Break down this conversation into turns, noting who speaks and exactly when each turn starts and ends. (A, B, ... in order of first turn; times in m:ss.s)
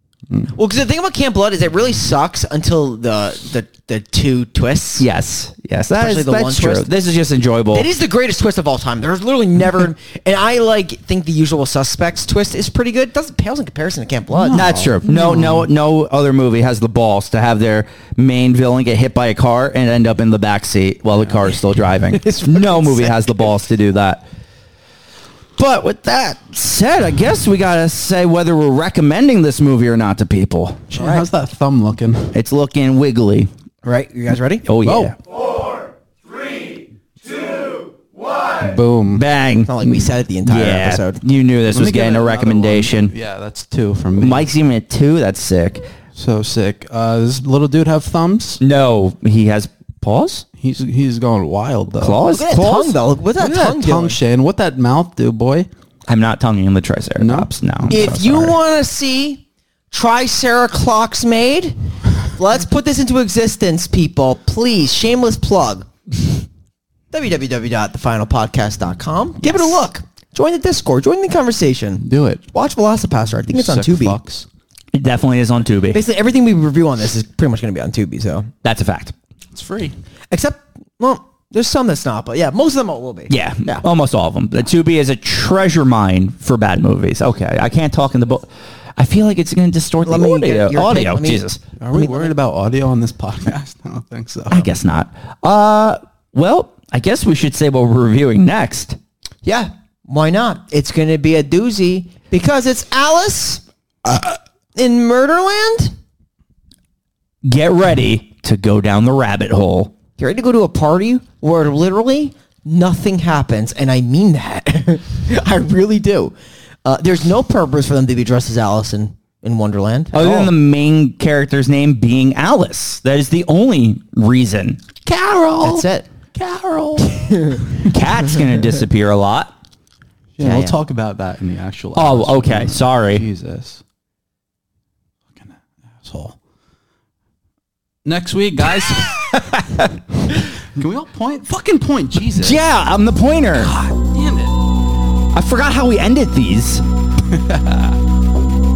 0:00.5-0:05.1 A
0:05.0-0:07.9 B
0:06.0-0:06.9 A
0:07.7-0:15.6 A
0:14.5-0:24.2 B
0:22.1-0:23.2 A
0:25.6-0:30.9 B
0:30.9-0:32.4 C
0:31.0-0:31.3 A
0:32.3-0:33.5 B
0:33.8-0:34.7 A
0:34.6-0:35.2 B
0:34.8-0:35.2 C
0:38.6-0:39.2 C
0:39.1-0:39.7 B
0:39.7-0:41.2 A
0:39.8-0:40.1 C
0:40.4-0:43.1 B
0:41.7-0:44.5 C
0:44.2-0:45.9 B
0:46.2-0:48.6 C
0:48.6-0:50.4 B
0:50.6-0:52.2 C
0:52.0-0:53.0 B
0:52.3-0:54.2 A
0:53.4-0:55.7 C
0:56.1-0:58.6 B
0:57.2-0:57.9 C
0:57.9-1:05.9 A
1:07.1-1:14.2 A
1:12.0-1:12.4 C
1:13.5-1:14.5 C
1:14.9-1:16.0 B
1:15.9-1:18.5 A
1:18.6-1:19.1 B
1:19.5-1:20.0 C
1:20.3-1:23.8 A
1:23.3-1:31.6 B
1:30.0-1:32.3 A
1:31.8-1:34.7 C
1:34.5-1:39.0 B
1:39.4-1:45.9 A
1:47.4-1:49.9 B
1:50.2-2:00.5 A
2:00.1-2:09.5 B
2:05.6-2:06.1 A
2:07.1-2:07.7 A
2:10.4-2:13.8 C
2:10.4-2:10.8 B
2:12.0-2:13.2 B
2:15.3-2:16.4 C
2:18.0-2:19.3 C
2:19.5-2:19.9 B
2:20.7-2:22.7 C
2:22.4-2:23.7 B
2:23.6-2:24.6 C
2:25.3-2:26.8 B
2:27.3-2:28.0 C